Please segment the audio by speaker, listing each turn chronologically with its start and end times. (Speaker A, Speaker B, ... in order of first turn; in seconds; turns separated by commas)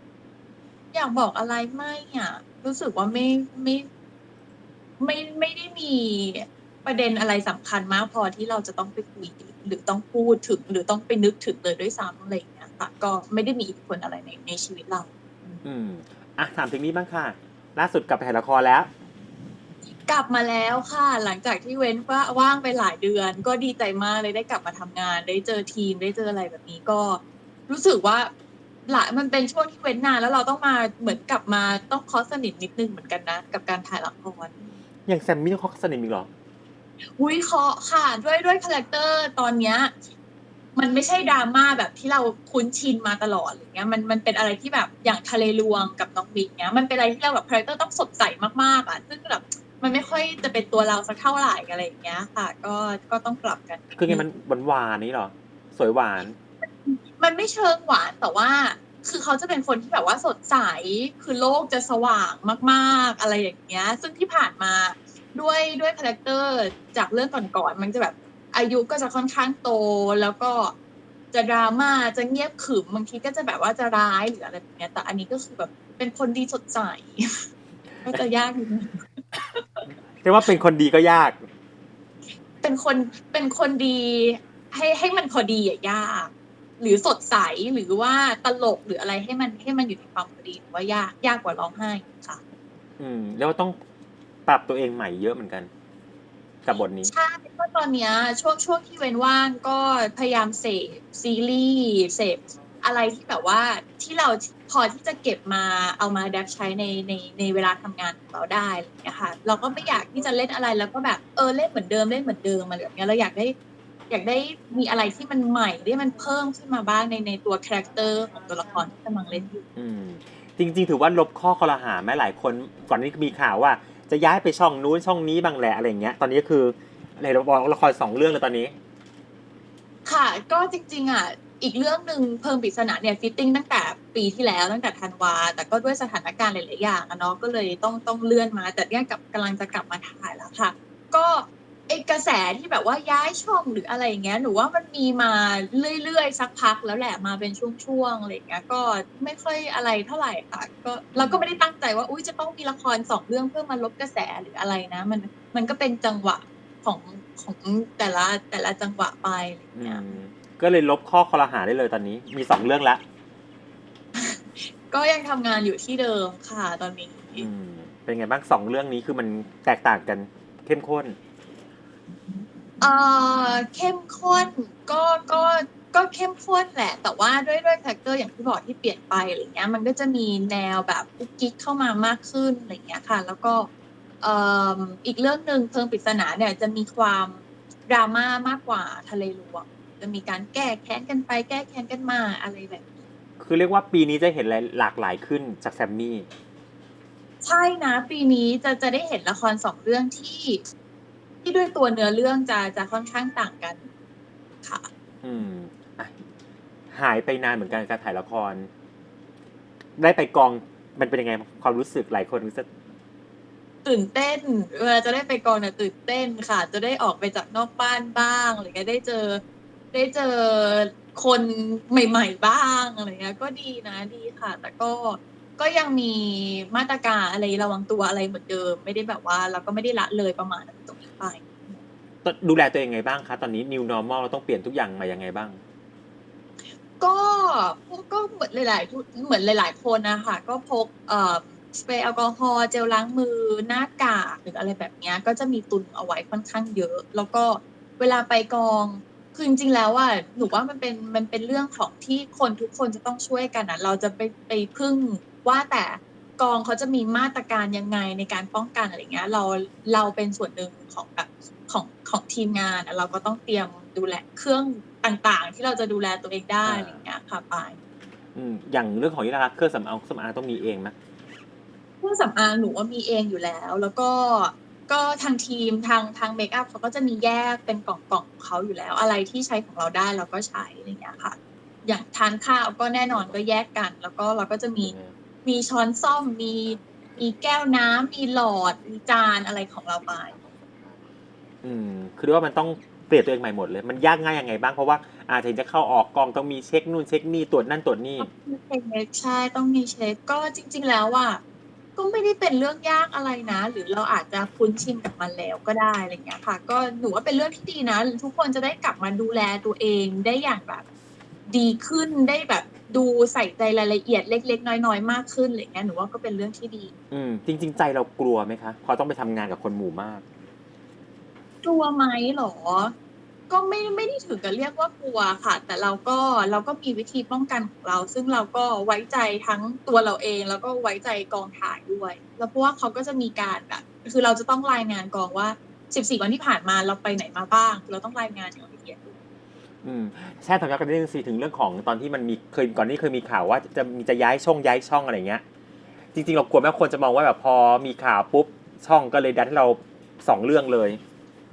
Speaker A: 0.9-3.9, Speaker A: 5.0-15.6, Speaker B: 15.6-18.9, Speaker A: 20.1-28.3, Speaker A: 28.9-34.7, Speaker B: 35.1-36.3, Speaker A: 37.2-39.9, Speaker A: 40.8-54.2, Speaker B: 53.9-56.4, Speaker A: 56.6-70.7, Speaker A: 71.3-77.4, Speaker A: 78.0-79.6, Speaker B: 80.2-81.4, Speaker A: 82.6-92.4, Speaker B: 93.0-93.8, Speaker B: 94.5-95.7, Speaker B: 96.6-97.1, Speaker A: 96.7-113.5, Speaker A: 114.1-119.6, Speaker B: 119.8-128.8, Speaker A: 130.1-160.0, Speaker B: 151.2-151.4, Speaker B: 159.8-163.0, Speaker A: 164.2-167.5, Speaker B: 167.4-171.2, Speaker A: 172.8-183.7, Speaker A: 184.2-192.9, Speaker B: 193.4-196.3, Speaker A: 197.4-200.6, Speaker A: 201.4-203.9, Speaker B: 205.2-206.1, Speaker B: 206.9-208.7, Speaker B: 210.0-212.7, Speaker A: 213.8-219.4, Speaker A: 219.9-231.8, Speaker B: 232.2-235.6, Speaker A: 237.0-267.8, Speaker B: 266.6-267.0, Speaker B: 268.4-270.9, Speaker A: 272.0-284.9, Speaker B: 284.8-285.1, Speaker A: 285.4-290.4, Speaker B: 291.6-298.3, Speaker A: 298.2-301.4, Speaker A: 301.9-310.8, Speaker A: 311.5-316.9, Speaker B: 317.1-320.2, Speaker A: 321.6-322.9, Speaker A: 323.5-339.1, Speaker B: 339.8-345.4, Speaker B: 346.1-351.0